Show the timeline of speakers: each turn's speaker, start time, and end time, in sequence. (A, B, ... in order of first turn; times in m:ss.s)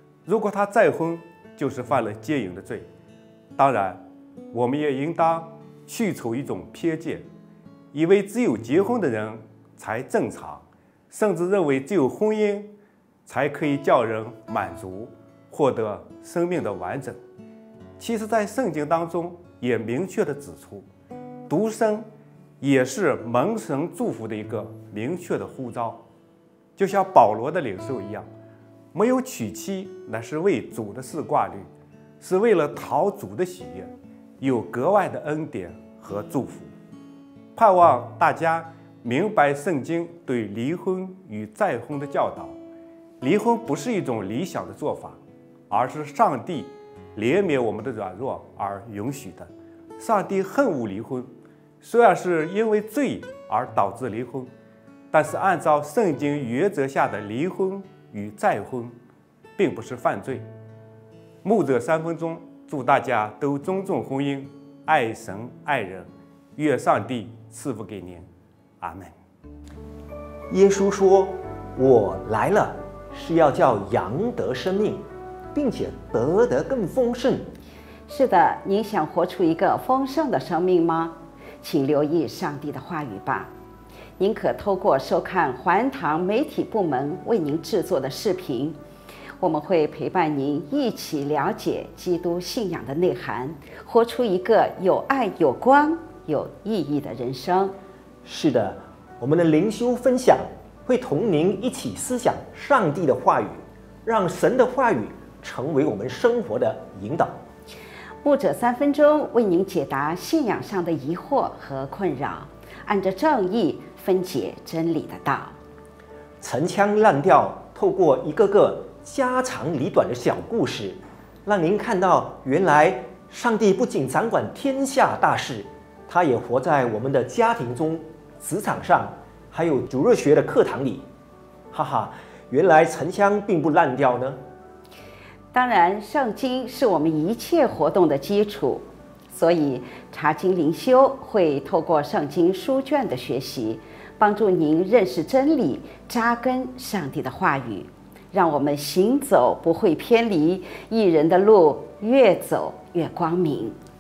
0:00.2-0:02.9 A
0:03.6-0:07.2 A
0:07.9-0:12.7 A
0:13.3-0:17.2 A
0:18.0-0:20.8 A
0:21.5-0:22.1 A
0:22.6-0:26.0 A
0:26.8-0:28.3 A
0:28.9-0:31.7 A
0:32.2-0:36.7 A
0:37.6-0:42.6 A
0:43.2-0:51.3 A
0:51.8-0:54.5 A
0:55.1-0:59.0 A
0:59.6-1:00.4 A
1:01.4-1:08.3 A
1:08.8-1:09.1 A
1:10.5-1:17.5 B
1:18.1-1:23.5 C
1:24.2-1:28.8 C
1:29.4-1:37.8 C
1:38.2-1:47.4 B
1:48.2-1:55.6 C
1:56.4-2:11.0 B
2:11.7-2:14.4 B
2:15.5-2:33.8 C